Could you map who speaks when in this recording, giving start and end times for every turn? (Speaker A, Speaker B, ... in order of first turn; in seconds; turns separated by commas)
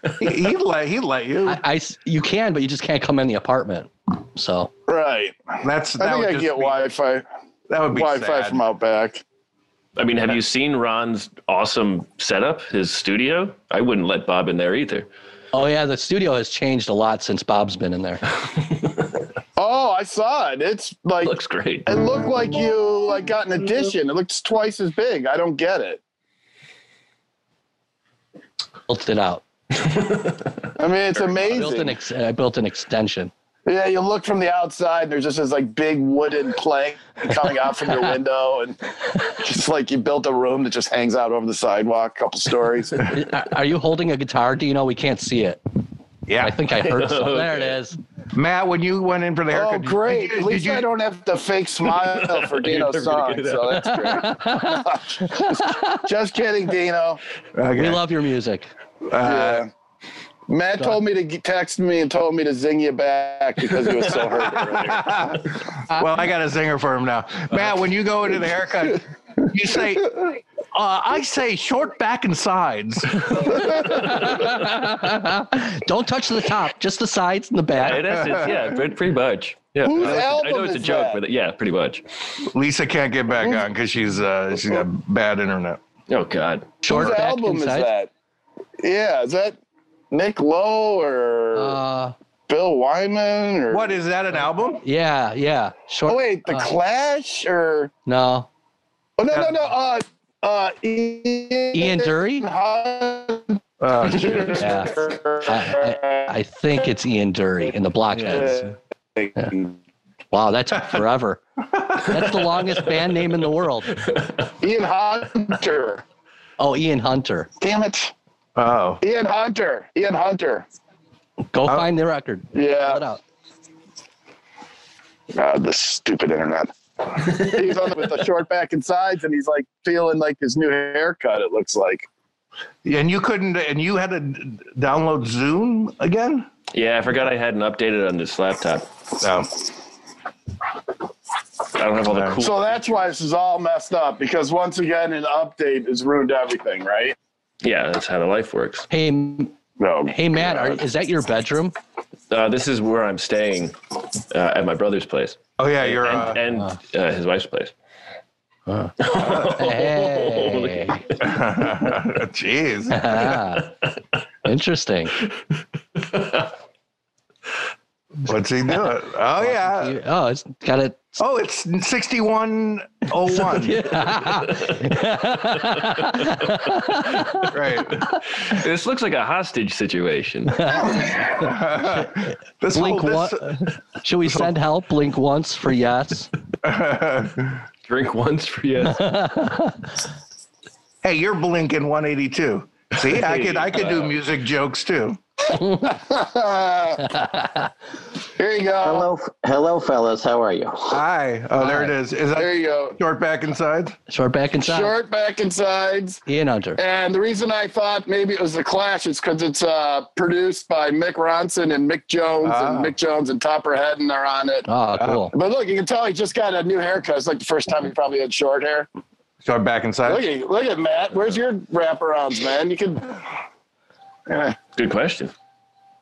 Speaker A: 0.2-1.6, Speaker B: 1.5-4.7, Speaker C: 4.9-7.3, Speaker A: 5.6-6.8, Speaker A: 7.7-8.6, Speaker C: 7.9-9.2, Speaker D: 10.0-15.1, Speaker B: 15.5-18.2, Speaker C: 19.6-21.4, Speaker D: 21.2-21.9, Speaker C: 21.9-26.0, Speaker B: 28.9-29.4, Speaker D: 29.7-30.6, Speaker C: 30.8-31.9, Speaker B: 31.4-33.3, Speaker C: 33.7-43.1, Speaker B: 43.0-45.6, Speaker A: 46.3-46.6, Speaker B: 46.4-48.0, Speaker D: 46.8-47.8, Speaker A: 48.3-50.9, Speaker C: 49.5-57.2, Speaker D: 52.0-53.9, Speaker B: 53.8-55.8, Speaker A: 57.5-58.0, Speaker B: 57.8-58.7, Speaker A: 59.0-59.6, Speaker C: 59.2-59.7, Speaker C: 60.5-65.2, Speaker A: 64.3-73.8, Speaker B: 73.4-78.2, Speaker D: 77.8-82.0, Speaker A: 78.2-78.7, Speaker C: 79.8-81.2, Speaker A: 82.4-85.8, Speaker D: 86.1-86.8, Speaker B: 86.8-87.9, Speaker C: 86.8-88.1, Speaker C: 88.8-89.6, Speaker C: 90.1-91.8, Speaker B: 91.5-92.1, Speaker C: 92.5-94.0, Speaker A: 93.7-94.8, Speaker B: 94.8-96.7, Speaker C: 96.1-97.9, Speaker B: 98.1-98.5, Speaker C: 99.2-106.3, Speaker B: 101.7-102.5, Speaker A: 103.8-104.8, Speaker B: 104.5-108.7, Speaker C: 108.2-109.8, Speaker B: 110.3-111.4, Speaker B: 111.9-114.0, Speaker D: 113.9-114.5, Speaker C: 114.6-116.0, Speaker B: 116.6-117.5, Speaker C: 117.6-118.1, Speaker A: 118.6-119.0, Speaker C: 119.0-120.7, Speaker B: 121.5-123.2, Speaker C: 122.5-123.0, Speaker C: 125.3-132.1, Speaker A: 132.8-136.5, Speaker D: 136.7-138.9, Speaker A: 139.2-139.6, Speaker D: 141.7-142.9, Speaker A: 142.1-142.4, Speaker C: 142.4-147.2, Speaker D: 147.6-148.9, Speaker B: 148.9-149.5, Speaker C: 149.8-150.8, Speaker B: 150.1-151.8, Speaker D: 152.3-157.7, Speaker A: 155.6-156.4, Speaker B: 158.7-161.0, Speaker D: 159.0-161.0, Speaker A: 159.2-159.5, Speaker A: 161.2-163.3, Speaker B: 162.9-163.7, Speaker B: 164.4-165.2, Speaker D: 166.0-166.5, Speaker A: 168.2-170.0, Speaker B: 169.4-171.2, Speaker A: 171.2-173.9, Speaker B: 173.3-178.2, Speaker A: 177.5-178.1, Speaker D: 178.4-181.1, Speaker B: 180.6-181.0, Speaker A: 181.1-183.6, Speaker B: 182.7-186.3, Speaker A: 184.2-184.5, Speaker A: 186.6-187.6, Speaker D: 187.9-189.1, Speaker B: 188.9-189.8, Speaker A: 191.0-195.2, Speaker D: 193.0-194.2, Speaker C: 195.8-197.2, Speaker B: 197.2-197.6, Speaker C: 198.4-199.1, Speaker E: 198.8-201.0, Speaker A: 200.9-204.0, Speaker B: 201.6-201.9, Speaker C: 202.4-203.0, Speaker B: 204.1-204.9, Speaker C: 204.6-206.2, Speaker B: 206.3-206.8, Speaker C: 206.8-214.7, Speaker A: 212.4-212.9, Speaker B: 214.7-215.3, Speaker A: 214.9-215.2, Speaker C: 215.3-218.9, Speaker A: 219.4-220.3, Speaker C: 220.1-223.2, Speaker C: 224.3-224.6, Speaker D: 224.8-225.3